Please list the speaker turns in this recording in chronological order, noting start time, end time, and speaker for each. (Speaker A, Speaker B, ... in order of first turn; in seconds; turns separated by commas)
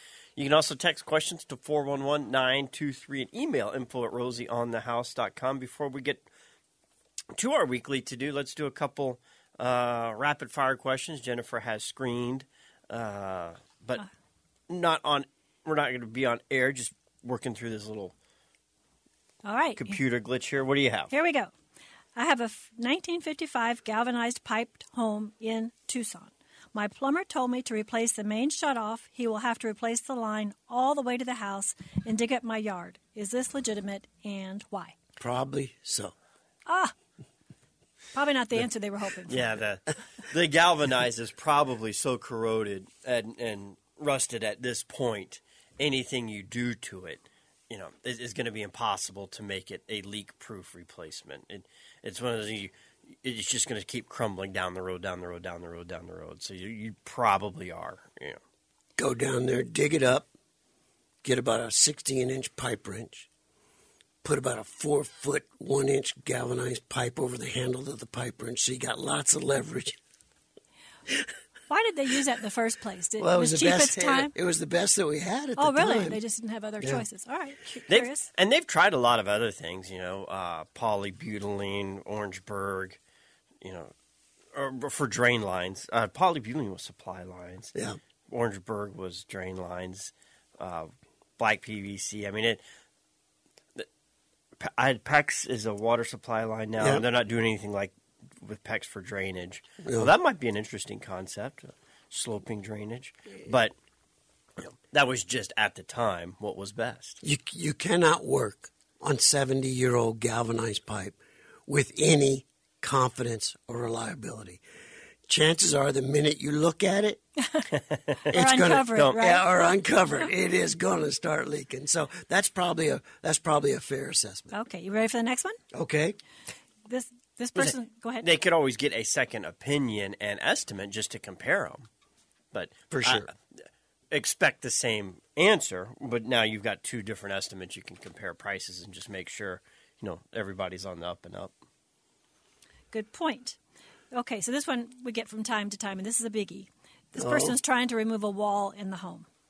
Speaker A: 0.3-6.2, Speaker A: 7.3-14.0, Speaker A: 14.7-18.1, Speaker B: 19.4-20.0, Speaker A: 19.8-21.1, Speaker B: 21.1-21.5, Speaker B: 22.1-35.0, Speaker C: 35.2-36.1, Speaker B: 36.6-36.9, Speaker B: 38.1-39.5, Speaker A: 39.3-52.7, Speaker A: 53.2-58.4, Speaker C: 59.0-60.3, Speaker C: 61.2-63.3, Speaker C: 64.2-70.0, Speaker B: 71.7-74.3, Speaker C: 73.2-76.2, Speaker B: 75.6-78.3, Speaker A: 77.9-83.0, Speaker A: 83.6-83.9, Speaker A: 84.5-87.7, Speaker A: 88.3-92.6, Speaker A: 94.6-103.7, Speaker C: 96.8-97.0, Speaker C: 99.8-100.1, Speaker A: 104.9-107.2, Speaker C: 107.2-111.2, Speaker C: 111.7-114.6, Speaker C: 115.3-117.2, Speaker B: 118.3-119.4, Speaker C: 118.3-124.5, Speaker B: 124.5-125.6, Speaker C: 125.7-126.2, Speaker B: 126.9-128.3, Speaker A: 128.2-131.9, Speaker A: 132.5-133.3, Speaker C: 132.9-133.3, Speaker A: 134.1-141.5, Speaker B: 142.9-143.6, Speaker B: 144.1-149.3, Speaker C: 147.2-147.6